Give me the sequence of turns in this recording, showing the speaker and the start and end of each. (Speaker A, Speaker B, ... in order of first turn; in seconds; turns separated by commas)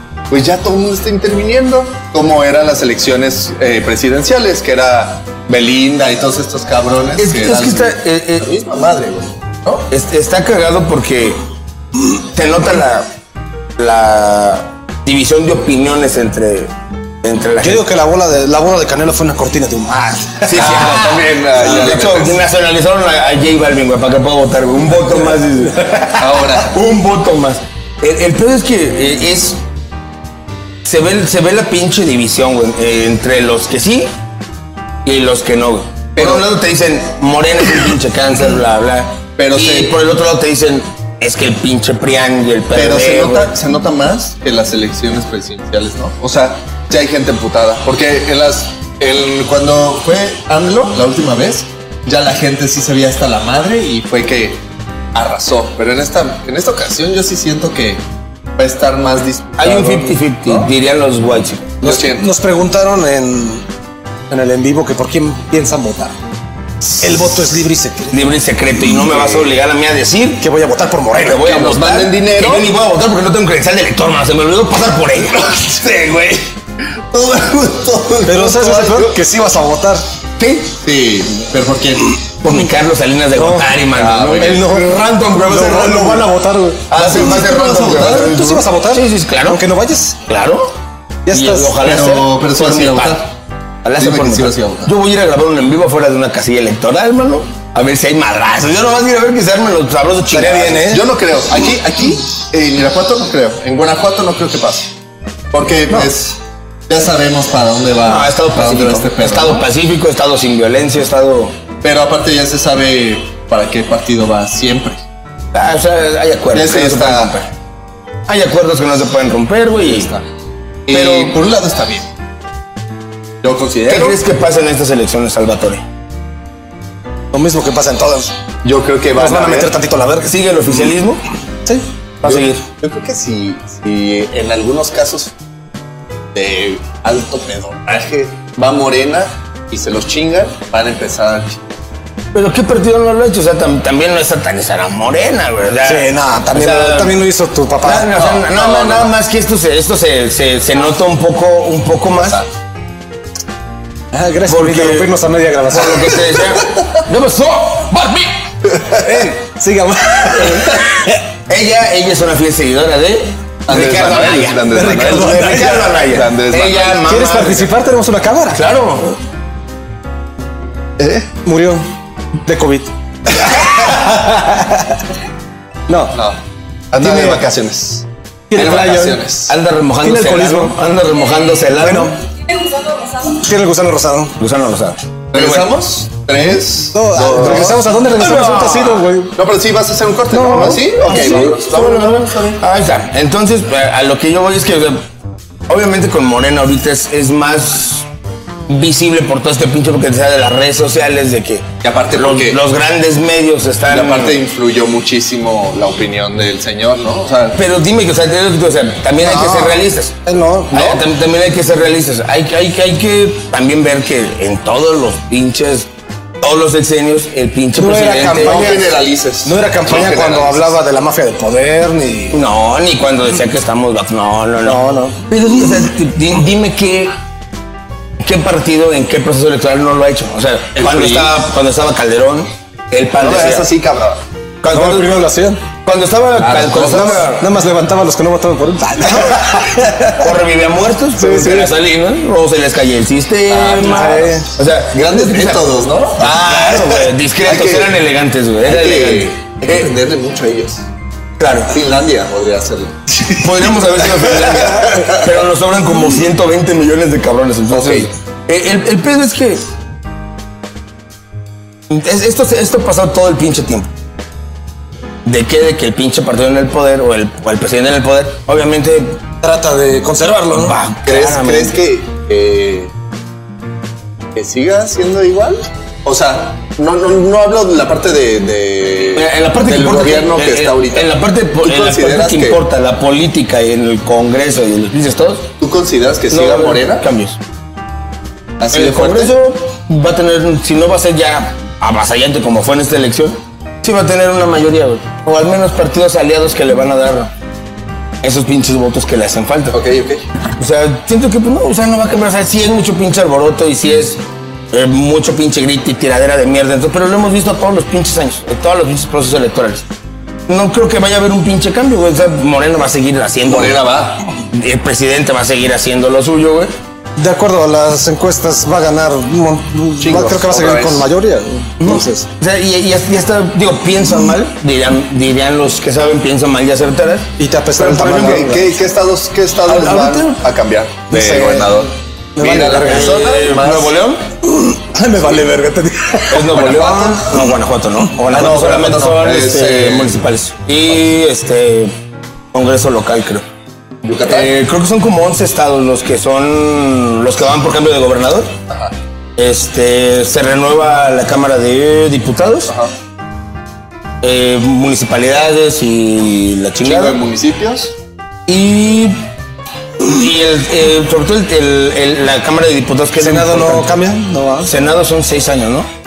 Speaker A: 0.3-9.8, Speaker B: 7.2-8.4, Speaker B: 9.9-11.4, Speaker B: 12.1-13.1, Speaker B: 13.8-16.7, Speaker B: 17.2-17.9, Speaker C: 17.6-20.6, Speaker B: 20.4-29.6, Speaker A: 20.6-22.4, Speaker A: 26.2-26.7, Speaker B: 30.8-34.1, Speaker B: 35.0-43.5, Speaker A: 36.1-36.5, Speaker A: 39.4-40.0, Speaker A: 42.7-54.6, Speaker A: 55.1-58.0, Speaker A: 58.6-60.7, Speaker B: 59.6-61.9, Speaker C: 61.8-63.6, Speaker A: 61.8-62.3, Speaker C: 64.3-66.1, Speaker C: 67.0-68.2, Speaker B: 68.1-70.5, Speaker A: 69.1-69.5, Speaker C: 70.4-71.5, Speaker B: 71.1-76.3, Speaker A: 71.5-72.7, Speaker A: 77.1-79.2, Speaker C: 78.2-80.0, Speaker B: 80.4-80.8, Speaker A: 80.7-82.1, Speaker B: 82.4-86.3, Speaker C: 83.3-86.9, Speaker A: 83.9-84.6, Speaker B: 86.9-89.7, Speaker A: 86.9-88.2, Speaker C: 88.2-90.2, Speaker B: 90.2-90.7, Speaker C: 91.3-91.8, Speaker B: 91.3-93.2, Speaker A: 91.8-93.2, Speaker B: 93.8-100.9, Speaker A: 94.0-94.9, Speaker C: 100.3-101.0, Speaker A: 100.8-104.9, Speaker A: 105.5-106.4, Speaker A: 106.9-109.7, Speaker B: 108.0-111.5, Speaker A: 111.8-115.0, Speaker B: 115.5-117.5, Speaker A: 116.5-117.3, Speaker B: 118.3-120.1, Speaker A: 120.9-122.0, Speaker B: 120.9-121.4, Speaker A: 123.4-124.2, Speaker B: 123.9-125.8, Speaker C: 127.3-128.3, Speaker A: 128.6-129.7, Speaker C: 129.2-130.3, Speaker B: 130.2-131.2, Speaker B: 132.2-132.6, Speaker A: 132.2-135.3, Speaker A: 136.3-141.6, Speaker B: 142.3-147.2, Speaker C: 145.8-148.1, Speaker B: 147.8-152.4, Speaker A: 148.1-149.1, Speaker C: 154.1-156.6, Speaker B: 154.4-155.1, Speaker B: 155.7-158.3, Speaker C: 158.8-161.1, Speaker B: 161.5-167.7, Speaker A: 163.7-167.0, Speaker C: 164.7-166.0, Speaker C: 167.0-168.6, Speaker B: 168.5-169.2, Speaker A: 171.0-171.3, Speaker C: 171.4-171.8, Speaker C: 172.4-172.9, Speaker C: 173.4-175.0, Speaker C: 175.9-176.2, Speaker A: 176.9-178.0, Speaker C: 177.0-177.4, Speaker C: 178.5-180.8, Speaker B: 178.6-182.2, Speaker A: 178.6-179.4, Speaker C: 181.8-184.3, Speaker B: 184.4-185.7, Speaker A: 185.3-188.0, Speaker C: 186.9-189.3, Speaker B: 187.4-189.1, Speaker A: 189.3-192.6, Speaker C: 190.3-191.6, Speaker B: 190.5-195.0, Speaker B: 195.7-198.1, Speaker B: 198.7-204.4, Speaker A: 201.8-202.6, Speaker A: 203.9-207.6, Speaker B: 207.5-210.1, Speaker C: 209.3-210.7, Speaker B: 210.7-215.9, Speaker A: 210.7-211.0, Speaker B: 216.4-218.9, Speaker C: 217.8-222.4, Speaker A: 218.4-220.7, Speaker B: 222.3-227.1, Speaker C: 224.6-225.2, Speaker B: 228.2-233.7, Speaker A: 230.7-231.3, Speaker A: 233.2-234.2, Speaker B: 234.6-235.2, Speaker C: 234.7-235.6, Speaker B: 235.8-237.5, Speaker A: 236.3-237.2, Speaker C: 236.9-240.1, Speaker B: 239.2-249.3, Speaker C: 241.2-241.7, Speaker A: 243.5-243.8, Speaker C: 243.7-244.5, Speaker A: 244.9-247.9, Speaker A: 248.6-250.8, Speaker B: 251.4-251.8, Speaker A: 251.7-253.4, Speaker B: 253.3-259.6, Speaker A: 254.0-254.6, Speaker A: 257.7-258.1, Speaker B: 261.9-263.9, Speaker B: 265.2-269.2, Speaker C: 269.4-270.8, Speaker B: 270.5-271.8, Speaker A: 271.0-272.9, Speaker A: 274.4-282.6, Speaker B: 279.1-285.5, Speaker A: 285.6-287.0, Speaker B: 286.3-287.4, Speaker A: 288.6-289.3, Speaker B: 288.7-297.3, Speaker B: 298.2-299.8, Speaker A: 299.7-300.2, Speaker B: 300.5-304.2, Speaker B: 304.7-309.8, Speaker B: 310.5-316.7, Speaker A: 313.4-314.2, Speaker C: 317.2-322.2, Speaker A: 320.0-321.1, Speaker B: 321.8-327.3, Speaker C: 327.4-328.7, Speaker A: 327.7-333.9, Speaker B: 328.0-328.5, Speaker B: 329.7-330.4, Speaker C: 331.1-333.2, Speaker B: 332.6-334.2, Speaker C: 334.5-337.3, Speaker B: 336.3-341.9, Speaker A: 338.3-340.2, Speaker B: 342.5-343.4, Speaker A: 344.0-344.5, Speaker B: 344.2-348.5, Speaker B: 349.4-352.7, Speaker B: 354.2-357.2, Speaker A: 356.8-357.9, Speaker B: 358.5-359.1, Speaker B: 360.0-363.9, Speaker C: 363.1-364.8, Speaker B: 364.6-365.9